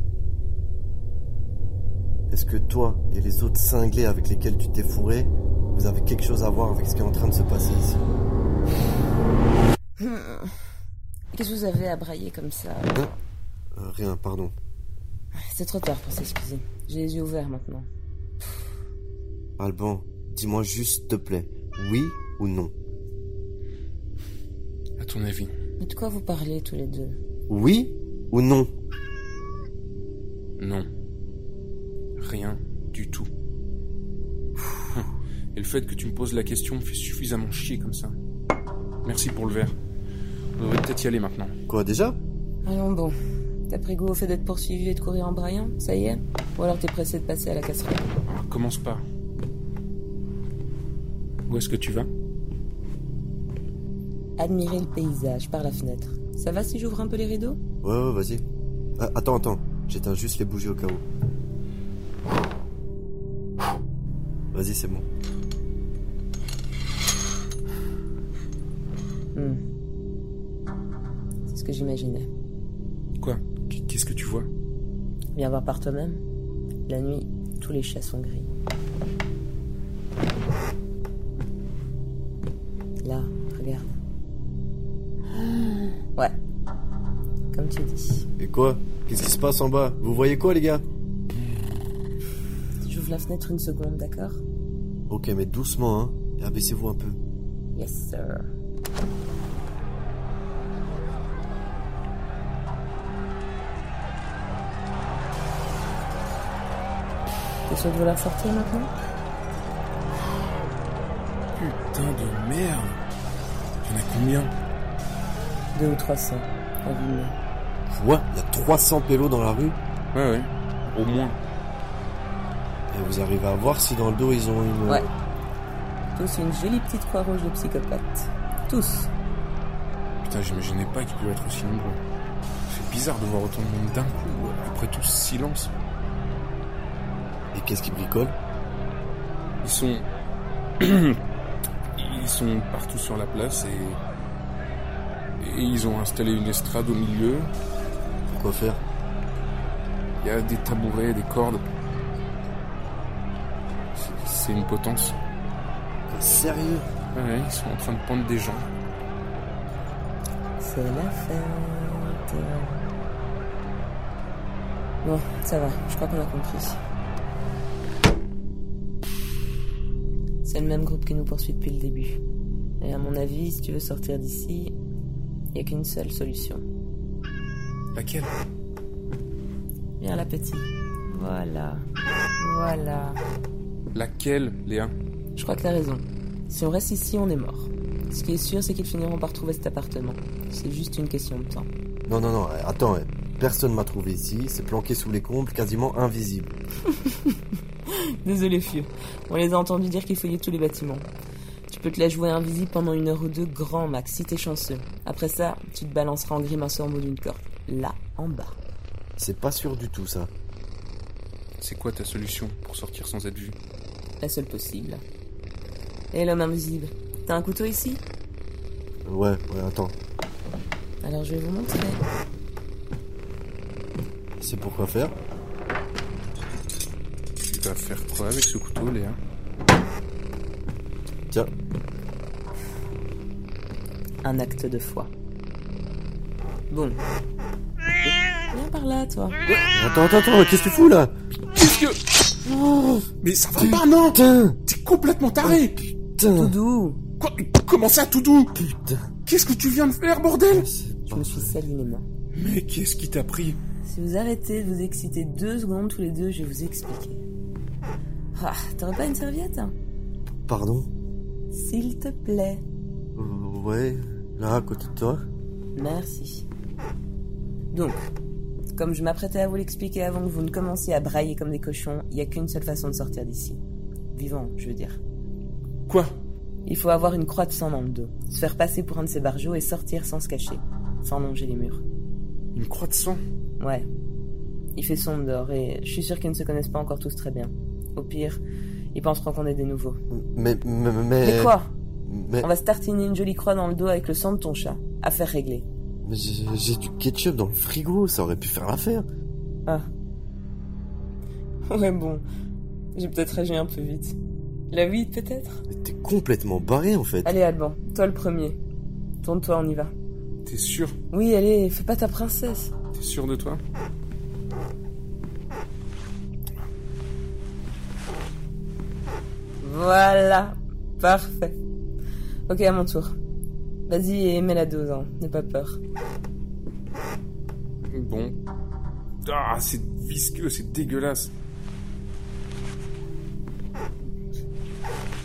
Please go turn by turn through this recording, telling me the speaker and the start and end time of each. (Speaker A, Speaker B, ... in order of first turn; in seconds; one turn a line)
Speaker A: 2.3-8.0
Speaker B: 10.0-10.5
Speaker B: 11.3-12.9
Speaker A: 13.8-14.5
Speaker B: 15.4-17.9
Speaker A: 19.6-22.7
Speaker C: 25.0-25.5
Speaker B: 25.8-27.2
Speaker A: 27.5-28.7
Speaker C: 30.6-30.9
Speaker C: 32.2-33.3
Speaker C: 34.9-38.1
Speaker C: 39.0-39.8
Speaker C: 40.6-41.5
Speaker A: 41.7-42.2
Speaker B: 42.6-43.1
Speaker B: 43.7-48.1
Speaker C: 48.3-49.0
Speaker C: 51.5-52.1
Speaker B: 54.4-57.6
Speaker A: 57.8-58.4
Speaker A: 59.0-61.0
Speaker A: 64.5-65.0
Speaker B: 69.3-69.6
Speaker B: 71.5-72.3
Speaker C: 73.2-74.5
Speaker B: 75.3-76.2
Speaker B: 76.9-78.5
Speaker B: 83.0-84.0
Speaker B: 87.5-88.3
Speaker A: 88.4-90.8
Speaker B: 92.8-94.4
Speaker A: 95.1-97.2
Speaker B: 97.7-98.4
Speaker B: 107.7-108.9
Speaker C: 111.5-113.0
Speaker C: 113.8-114.5
Speaker B: 115.7-117.3
Speaker A: 117.9-119.8
Speaker C: 120.1-121.4
Speaker A: 122.9-125.1
Speaker B: 126.1-129.1
Speaker C: 130.2-132.0
Speaker C: 132.7-135.7
Speaker A: 137.5-138.3
Speaker C: 139.6-140.1
Speaker C: 140.8-141.2
Speaker C: 141.9-144.0
Speaker C: 145.4-147.5
Speaker A: 148.3-148.8
Speaker C: 150.2-151.6
Speaker C: 153.9-155.2
Speaker A: 156.1-156.9
Speaker C: 157.1-158.7
Speaker B: 160.6-162.8
Speaker B: 165.0-166.8
Speaker B: 170.4-172.2
Speaker B: 172.8-174.8
Speaker B: 175.5-176.6
Speaker C: 177.9-178.3
Speaker B: 180.0-181.8
Speaker B: 182.4-183.2
Speaker C: 183.9-184.9
Speaker B: 185.3-191.7
Speaker A: 192.1-196.5
Speaker B: 198.0-201.1
Speaker B: 201.7-208.6
Speaker A: 209.2-210.3
Speaker C: 211.6-213.6
Speaker B: 214.2-215.0
Speaker B: 216.1-218.0
Speaker A: 219.1-219.9
Speaker B: 221.0-222.0
Speaker A: 224.4-225.1
Speaker C: 227.4-229.2
Speaker B: 234.2-235.1
Speaker B: 236.7-237.0
Speaker B: 238.5-239.4
Speaker A: 239.6-241.1
Speaker C: 241.5-242.0
Speaker A: 242.4-243.0
Speaker C: 243.2-245.8
Speaker A: 243.6-244.6
Speaker A: 245.4-246.6
Speaker B: 246.3-247.0
Speaker C: 247.2-248.5
Speaker A: 248.5-249.1
Speaker C: 249.2-250.7
Speaker A: 250.5-251.6
Speaker B: 251.1-252.1
Speaker C: 252.3-253.6
Speaker B: 253.8-257.2
Speaker B: 258.4-259.7
Speaker A: 260.4-260.9
Speaker B: 261.5-262.6
Speaker A: 263.1-265.2
Speaker B: 265.8-266.5
Speaker B: 267.7-268.1
Speaker B: 268.7-273.6
Speaker B: 274.1-275.0
Speaker C: 275.9-276.2
Speaker B: 276.6-281.8
Speaker C: 282.5-283.2
Speaker B: 283.6-283.9
Speaker B: 284.8-288.4
Speaker B: 288.9-290.0
Speaker A: 290.1-291.5
Speaker B: 291.2-291.7
Speaker A: 292.0-292.5
Speaker B: 292.4-295.7
Speaker A: 296.0-299.1
Speaker B: 301.7-302.2
Speaker B: 302.9-304.2
Speaker B: 304.7-305.6
Speaker A: 305.7-307.3
Speaker B: 307.2-308.6
Speaker B: 309.2-309.9
Speaker C: 310.4-310.9
Speaker B: 311.1-312.7
Speaker C: 312.9-313.6
Speaker B: 319.6-321.6
Speaker B: 322.5-323.1
Speaker B: 323.9-325.8
Speaker C: 327.9-328.4
Speaker C: 329.2-331.3